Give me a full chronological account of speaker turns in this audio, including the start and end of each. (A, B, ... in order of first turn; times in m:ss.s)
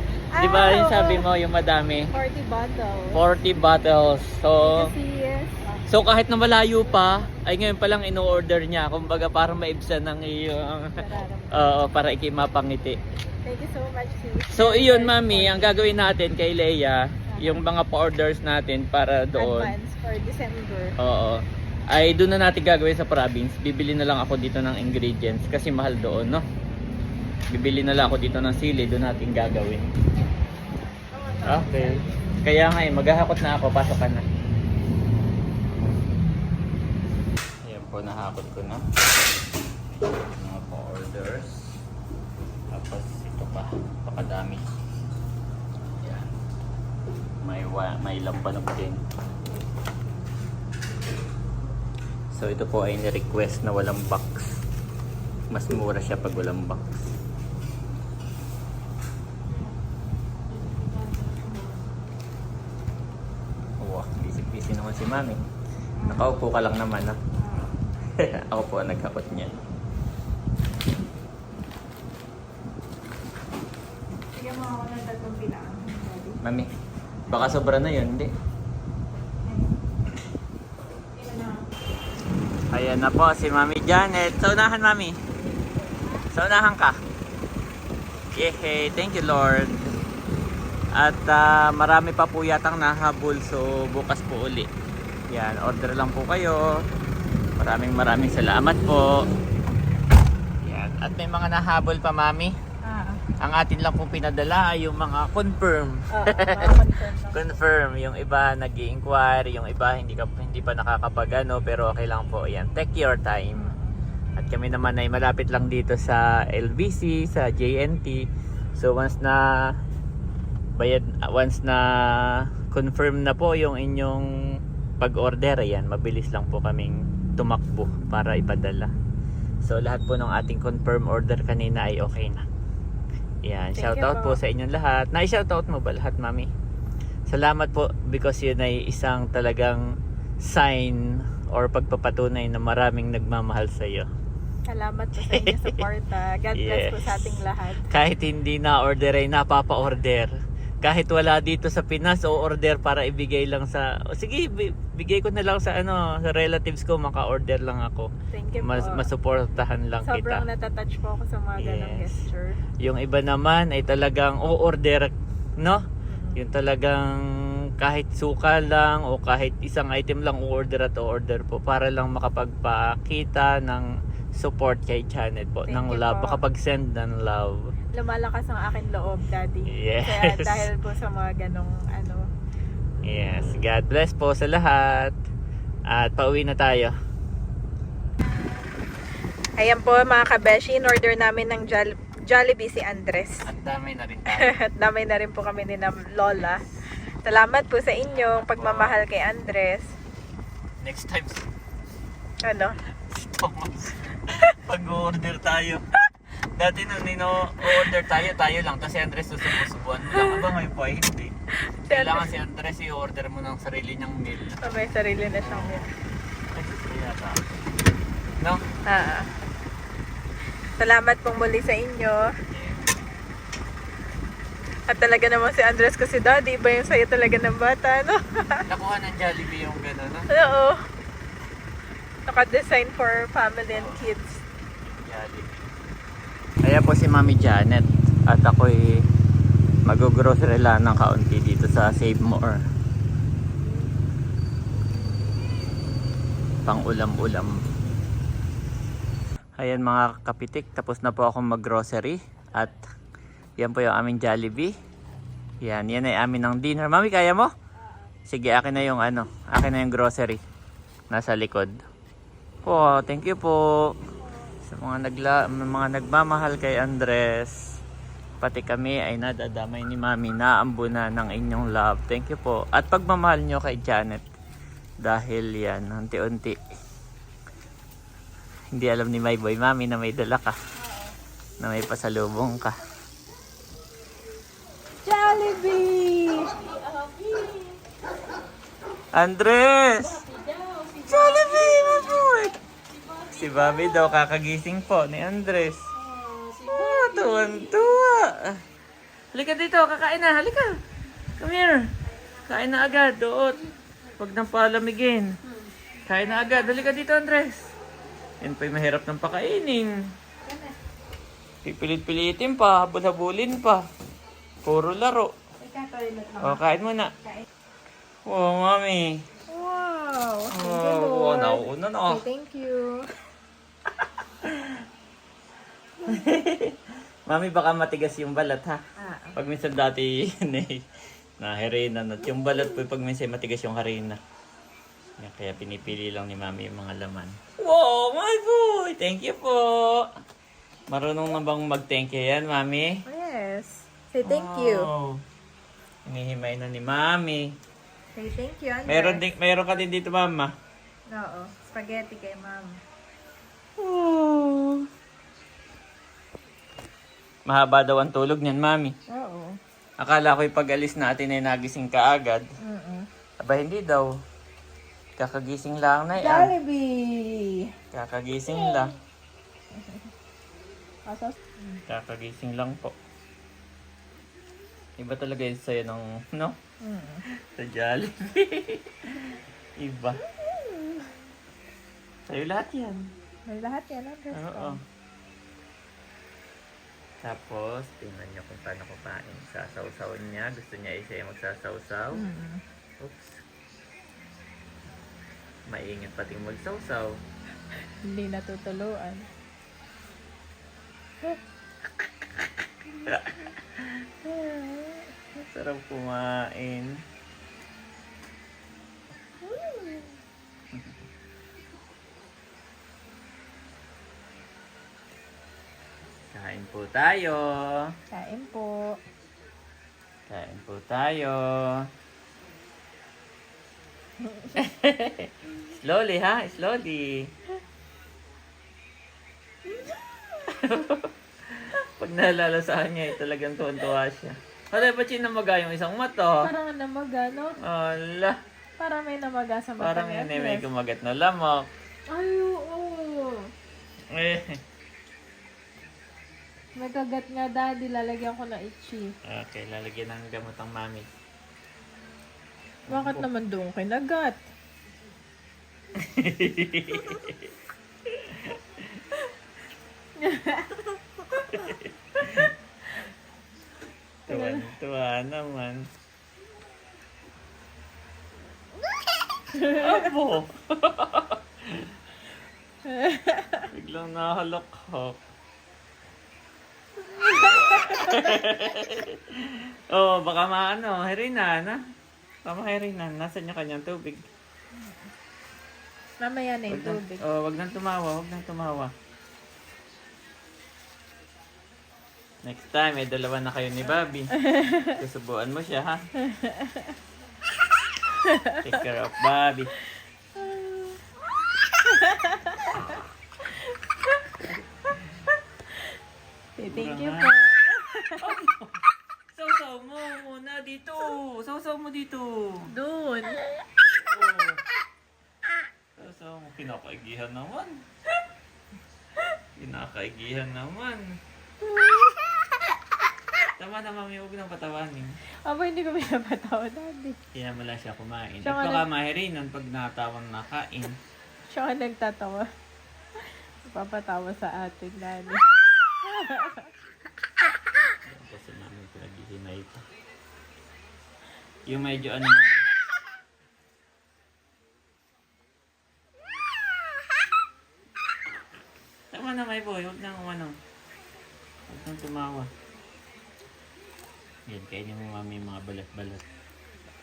0:00.3-0:01.2 A
0:00.4-0:02.1 B
0:02.1-0:03.2 A
0:03.1-0:04.9 B
0:04.6-0:05.8 A
0:05.9-0:13.0 B
0:11.0-0:11.7 A
0:13.4-0:15.7 A
0:14.5-0:19.7 B
0:17.3-0:17.6 A
0:19.4-0:20.9 A
0:21.0-0:21.4 B
0:21.9-0:26.4 B
0:27.5-0:29.9 B
0:31.0-0:32.1 A
0:31.4-0:34.2 B
0:37.6-0:38.8 B
0:40.3-0:41.7 B
0:42.7-0:44.6 B
0:46.0-0:46.3 B
0:47.4-0:49.0 B
0:52.3-0:54.5 B
0:55.5-0:57.0 B
1:00.6-1:01.9 A
1:03.8-1:05.4 B
1:06.0-1:06.3 A
1:06.1-1:07.2 B
1:07.4-1:07.8 A
1:08.1-1:09.6 B
1:14.3-1:16.4 A
1:16.4-1:16.7 B
1:17.3-1:18.3 B
1:19.4-1:19.8 A
1:21.1-1:21.7 A
1:22.7-1:25.2 B
1:25.9-1:26.2 A
1:26.3-1:27.0 B
1:28.3-1:29.9 B
1:30.9-1:34.7 B
1:35.3-1:36.7 B
1:37.6-1:39.1 B
1:40.6-1:42.5 B
1:42.8-1:43.2 A
1:43.4-1:46.8 B
1:46.1-1:47.6 A
1:47.3-1:53.7 B
1:53.6-1:54.0 A
1:54.4-1:58.2 B
1:58.8-1:59.5 B
2:00.8-2:04.3 B
2:05.0-2:08.9 B
2:09.6-2:12.4 B
2:13.4-2:16.5 B
2:13.8-2:14.4 A
2:17.3-2:19.8 B
2:20.4-2:24.1 B
2:24.7-2:27.9 A
2:25.3-2:25.7 B
2:26.5-2:27.4 B
2:27.9-2:30.3 B
2:30.8-2:40.4 B
2:38.3-2:39.1 A
2:40.0-2:42.6 A
2:41.6-2:42.1 B
2:42.8-2:45.8 B
2:46.1-2:46.4 A
2:46.4-2:47.2 B
2:47.8-2:57.6 B
2:55.7-2:56.4 A
2:57.9-3:02.2 A
2:59.7-3:00.7 B
3:03.0-3:05.1 B
3:05.9-3:06.9 B
3:09.6-3:13.4 A
3:13.4-3:14.5 B
3:14.3-3:16.6 A
3:17.2-3:20.0 A
3:18.3-3:19.0 B
3:20.8-3:21.4 B
3:22.4-3:22.8 A
3:23.1-3:25.8 B
3:26.5-3:31.3 B
3:30.1-3:30.5 A
3:31.7-3:32.3 A
3:31.9-3:34.8 B
3:34.6-3:35.9 A
3:35.4-3:35.9 B
3:36.5-3:37.5 B
3:38.8-3:39.3 A
3:40.8-3:42.3 A
3:42.5-3:42.9 B
3:44.9-3:48.6 A
3:48.7-3:50.3 B
3:50.3-3:50.8 A
3:52.3-3:54.4 A
3:53.7-3:54.0 B
3:54.8-3:55.6 B
3:56.6-3:58.9 B
3:59.8-4:02.6 B
4:06.6-4:07.7 B
4:09.6-4:12.8 B
4:13.6-4:14.7 B
4:15.6-4:17.5 B
4:18.3-4:20.4 B
4:21.1-4:21.8 B
4:22.6-4:23.8 B
4:24.6-4:27.8 B
4:28.4-4:34.2 B
4:35.0-4:36.6 B
4:38.7-4:40.5 B
4:40.8-4:41.2 A
4:41.6-4:42.8 B
4:45.0-4:47.8 A
4:49.1-4:50.2 B
4:50.0-4:54.1 A
4:51.1-4:52.5 B
4:53.2-4:55.9 B
4:56.0-4:57.9 A
4:56.6-4:58.6 B
4:59.3-5:00.7 B
5:01.4-5:01.9 B
5:02.4-5:03.6 B
5:04.2-5:05.3 B
5:06.0-5:07.7 B
5:06.2-5:06.9 A
5:08.4-5:10.0 B
5:10.4-5:10.7 A
5:11.6-5:13.8 B
5:14.6-5:15.3 B
5:15.6-5:16.6 A
5:16.4-5:17.1 B
5:18.2-5:19.2 B
5:19.5-5:23.0 A
5:20.5-5:22.2 B
5:24.0-5:24.8 B
5:26.1-5:28.8 B
5:29.0-5:29.4 A
5:29.4-5:30.8 B
5:31.4-5:34.2 B
5:35.2-5:40.1 B
5:40.9-5:43.0 B
5:43.0-5:44.9 A
5:44.2-5:45.2 B
5:46.0-5:47.5 B
5:48.1-5:49.2 A
5:48.9-5:50.5 B
5:51.1-5:52.7 A
5:53.8-5:54.9 B
5:57.4-5:59.0 B
5:59.1-5:59.6 A
6:00.0-6:02.5 B
6:02.6-6:03.1 A
6:03.4-6:04.1 B
6:05.2-6:06.5 B
6:06.2-6:07.7 A
6:07.9-6:08.9 B
6:08.5-6:08.8 A
6:09.7-6:10.0 A
6:11.1-6:11.8 A
6:11.9-6:12.9 B
6:15.0-6:16.6 B
6:16.8-6:17.2 A
6:17.3-6:20.2 B
6:20.2-6:21.1 A
6:22.3-6:23.1 B
6:23.5-6:24.8 A
6:24.3-6:24.8 B
6:27.2-6:32.2 B
6:32.1-6:32.6 A
6:33.0-6:33.4 B
6:35.7-6:37.2 B
6:38.0-6:39.3 A
6:43.1-6:44.1 B
6:44.2-6:45.0 A
6:45.4-6:47.0 B
6:49.4-6:50.2 A
6:56.3-6:57.9 B
6:58.1-6:59.0 A
7:00.3-7:01.8 B
7:04.6-7:07.3 B
7:09.7-7:10.5 A
7:10.5-7:16.5 B
7:16.4-7:17.6 A
7:17.6-7:18.4 B
7:18.8-7:20.7 A
7:19.8-7:21.7 B
7:22.1-7:23.5 A
7:24.1-7:24.6 B
7:26.8-7:29.1 A
7:29.2-7:31.0 B
7:32.9-7:33.2 B
7:32.9-7:34.5 A
7:36.0-7:37.4 B
7:38.1-7:38.6 B
7:40.2-7:41.7 A
7:41.5-7:42.5 B
7:44.3-7:45.8 B
7:44.3-7:44.7 A
7:49.5-7:50.1 A
7:49.6-7:51.9 B
7:52.8-7:53.7 A
7:53.7-7:55.2 B
7:57.0-7:58.4 A
7:57.4-8:01.8 B
8:02.4-8:04.2 B
8:04.7-8:05.1 A
8:06.2-8:07.2 A
8:06.7-8:08.9 B
8:12.4-8:14.3 B
8:14.4-8:15.0 A
8:14.9-8:16.0 B
8:16.2-8:17.0 A
8:18.1-8:18.7 A
8:18.6-8:19.7 B
8:20.4-8:24.3 A
8:26.6-8:28.3 A
8:26.7-8:27.4 B
8:28.1-8:28.8 B
8:29.3-8:32.7 B
8:32.7-8:33.6 A
8:33.9-8:34.6 B
8:36.0-8:37.8 B
8:39.6-8:41.0 B
8:41.6-8:42.5 A
8:43.6-8:45.2 B
8:45.4-8:47.2 A
8:47.3-8:51.0 B
8:48.4-8:48.8 A
8:51.5-8:52.5 A
8:53.7-8:56.7 A
8:58.0-8:59.8 B
9:01.6-9:02.6 B
9:09.1-9:10.6 B
9:11.7-9:12.5 B
9:14.5-9:16.2 B